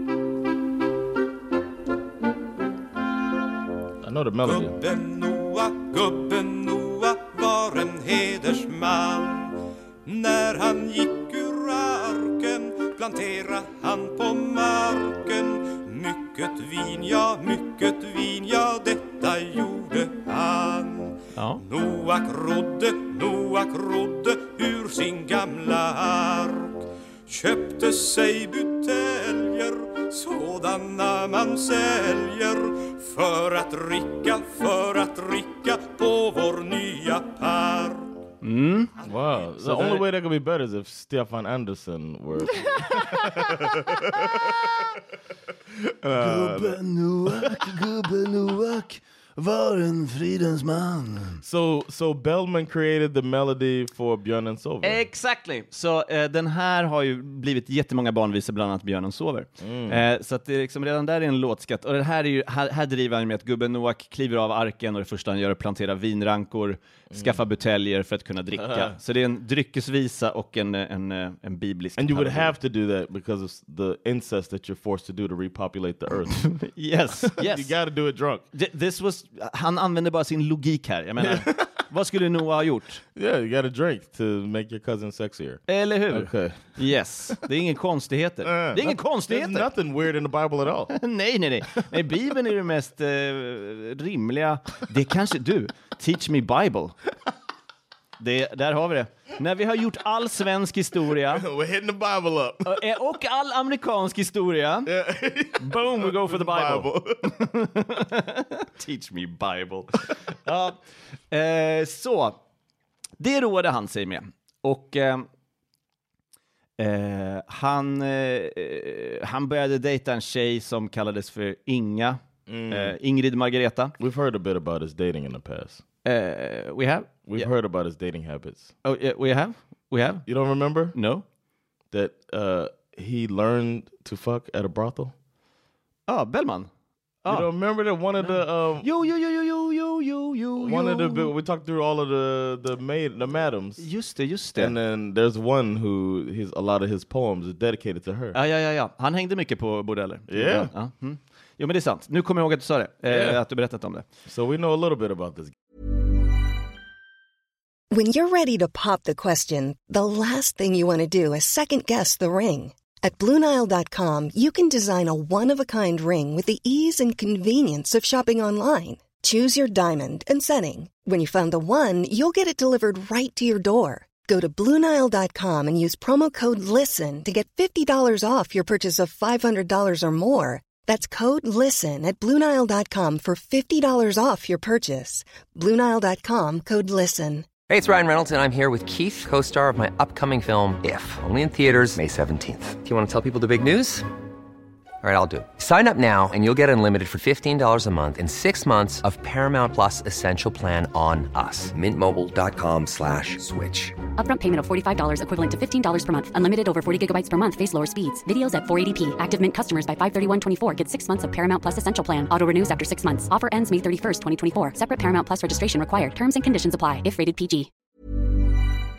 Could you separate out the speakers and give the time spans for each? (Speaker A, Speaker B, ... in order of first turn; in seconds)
Speaker A: 4.0-4.8, 39.0-44.6, 46.0-47.7, 51.4-55.0, 59.6-60.0, 67.1-67.4, 68.5-69.0, 72.0-76.5, 77.2-78.4, 81.2-81.7, 83.1-87.4, 88.4-90.9, 101.2-102.8, 104.8-107.4, 122.5-123.0, 124.0-125.8, 127.3-128.7, 130.2-130.9, 131.9-135.1, 137.3-138.8, 140.6-143.8, 144.6-148.4, 150.3-150.7, 153.1-153.4, 154.2-155.5
Speaker B: 4.4-38.1
Speaker C: 21.3-21.6, 38.4-38.9, 39.6-40.0, 42.7-44.7, 46.1-51.4, 54.8-72.5, 76.4-77.8, 78.5-83.0, 85.7-89.7, 90.9-97.0, 98.2-101.5, 102.6-104.9, 105.6-110.8, 111.3-112.4, 113.2-115.3, 116.8-123.9, 126.0-127.5, 128.8-130.2, 130.9-131.2, 136.1-136.7, 137.2-137.5, 138.2-141.3, 143.8-144.8, 148.3-154.1
Speaker D: 157.9-187.5
Speaker E: 187.7-194.1, 195.0-203.9
Speaker F: 204.2-217.7